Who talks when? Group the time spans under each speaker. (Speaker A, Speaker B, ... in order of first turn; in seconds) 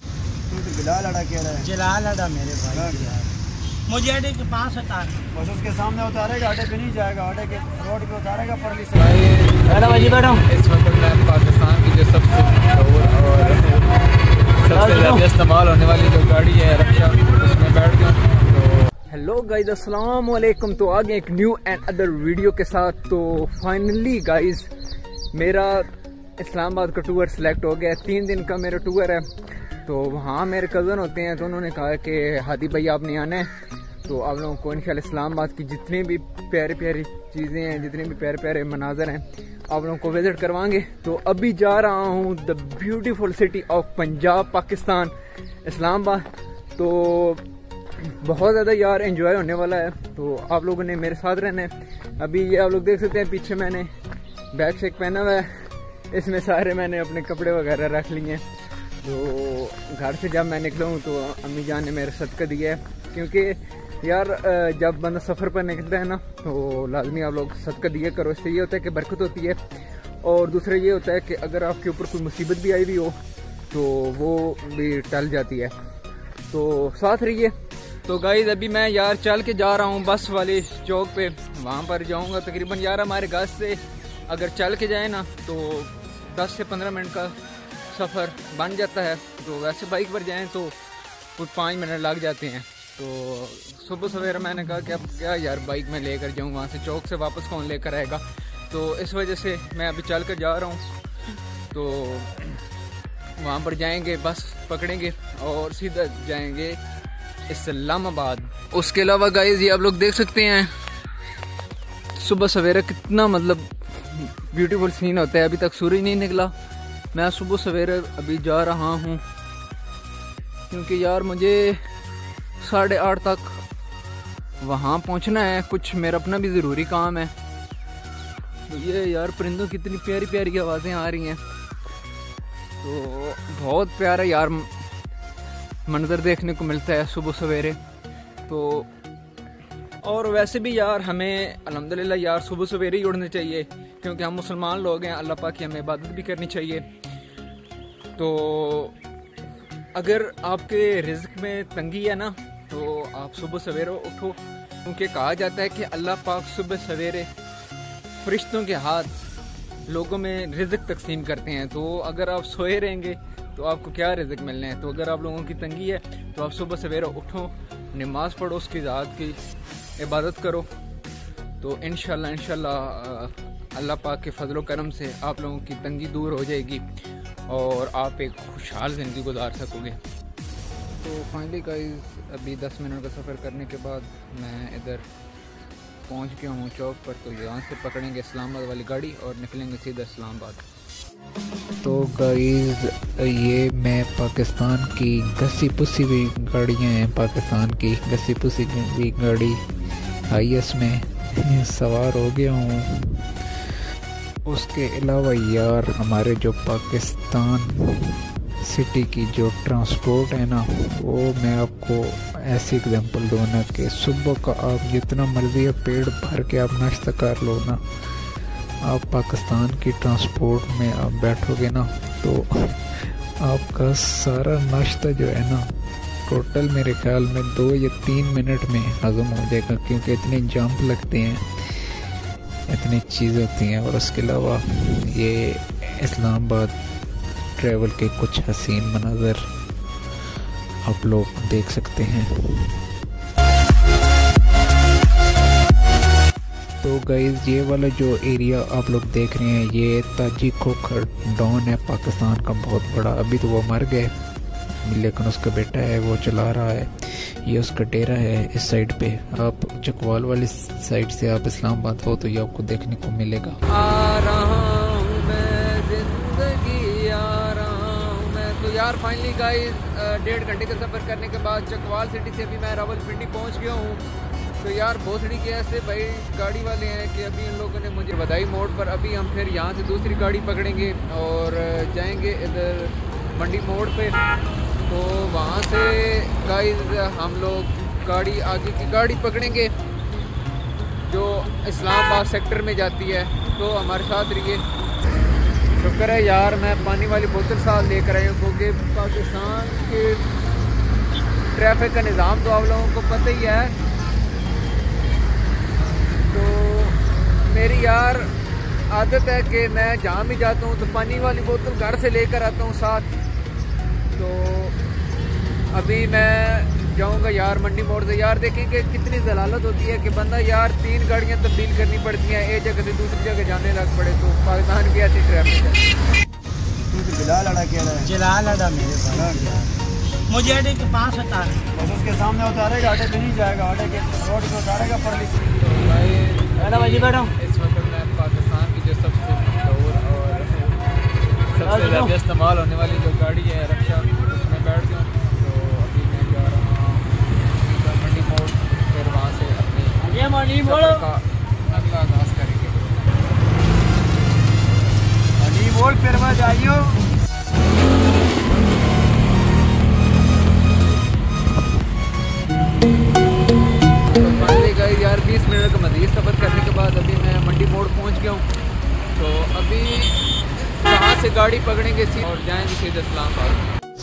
Speaker A: 0.5-1.7, 2.7-3.1, 5.3-9.1, 326.9-328.1, 329.1-329.5, 331.7-335.3, 355.4-357.1
Speaker B: 1.6-3.3, 3.9-5.2, 9.7-10.4, 14.7-15.2, 328.0-329.7, 330.3-331.7, 336.6-337.3, 341.6-342.1, 350.1-351.0
Speaker C: 8.9-14.0, 14.6-24.7, 25.3-29.3, 29.9-33.5, 34.0-45.1, 45.6-47.4, 48.0-53.9, 54.5-58.4, 59.0-69.6, 70.2-73.2, 73.7-75.7, 76.5-77.5, 78.0-87.3, 87.9-90.8, 91.4-100.9, 101.7-102.6, 103.4-106.8, 107.5-110.7, 112.2-116.5, 117.1-119.2, 120.7-121.8, 122.6-123.6, 124.6-127.3, 128.7-131.4, 132.8-134.7, 135.9-137.8, 138.5-138.9, 140.0-146.8, 148.2-148.9, 149.9-157.3, 158.2-159.1, 159.8-169.4, 170.0-170.7, 171.6-176.8, 177.5-180.0, 181.0-185.0, 186.1-190.6, 263.7-274.0, 274.6-284.2, 284.9-289.7, 291.1-294.6, 295.8-300.2, 301.5-303.8, 306.1-308.3, 308.9-313.1, 314.1-314.8, 315.7-325.9, 335.6-340.9, 341.5-353.1, 364.1-368.5, 369.1-373.7
Speaker D: 191.8-199.6, 200.3-203.3, 204.4-217.8, 218.8-225.7, 226.3-232.0, 232.7-236.8, 237.6-239.4, 240.8-242.8, 246.8-254.1, 254.8-263.6